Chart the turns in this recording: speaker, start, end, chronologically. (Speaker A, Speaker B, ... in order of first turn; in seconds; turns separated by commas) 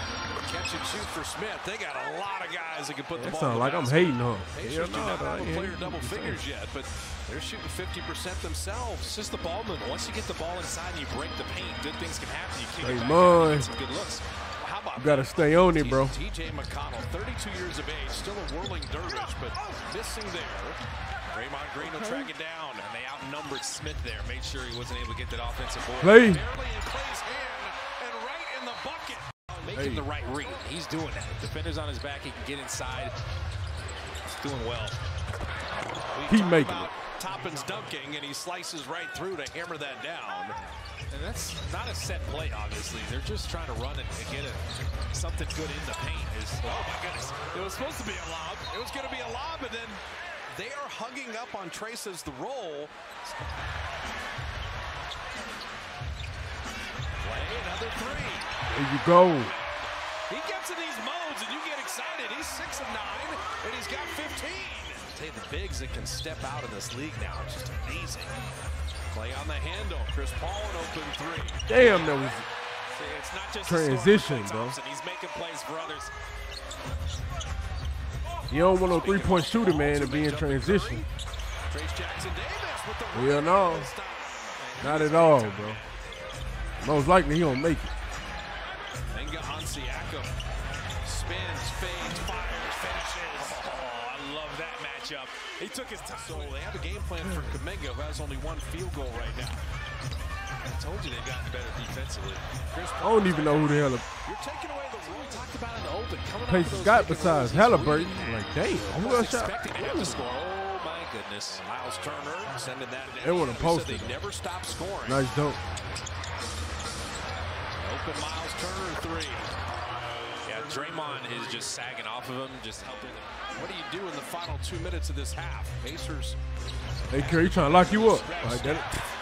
Speaker A: 0.4-9.2, Speaker B: 3.2-6.4, Speaker C: 9.1-14.2, Speaker B: 12.8-13.7, Speaker A: 14.6-22.9, Speaker B: 15.0-16.2, Speaker B: 21.8-22.3, Speaker C: 22.8-26.3, Speaker B: 26.0-26.4, Speaker A: 26.2-30.5, Speaker B: 29.7-30.1, Speaker C: 29.7-33.1, Speaker C: 34.3-35.0, Speaker A: 36.1-40.6, Speaker B: 36.3-36.9, Speaker C: 41.1-48.2, Speaker A: 46.6-52.9, Speaker A: 57.2-58.5, Speaker B: 58.7-59.5, Speaker A: 59.4-68.4, Speaker A: 69.1-72.4, Speaker B: 71.7-72.5, Speaker C: 73.0-76.1, Speaker A: 73.2-75.0, Speaker B: 73.7-74.8, Speaker A: 75.7-76.0, Speaker B: 78.5-81.0, Speaker A: 78.8-81.1, Speaker A: 81.7-84.8, Speaker B: 83.1-83.9, Speaker C: 84.7-85.8, Speaker B: 84.8-85.8, Speaker B: 86.8-87.9, Speaker A: 89.1-90.3, Speaker A: 91.0-93.6, Speaker C: 93.3-96.6, Speaker A: 96.1-99.6, Speaker B: 97.2-97.6, Speaker C: 100.7-102.5, Speaker A: 102.6-105.5, Speaker B: 103.0-104.1, Speaker C: 105.2-108.0, Speaker B: 106.5-109.9, Speaker A: 107.5-115.2, Speaker C: 109.6-110.3, Speaker C: 111.0-111.4, Speaker B: 113.2-114.2, Speaker B: 115.0-115.6, Speaker A: 117.8-119.5, Speaker C: 120.5-123.4, Speaker A: 123.5-126.4, Speaker B: 127.1-129.0, Speaker C: 127.2-128.2, Speaker A: 127.2-128.9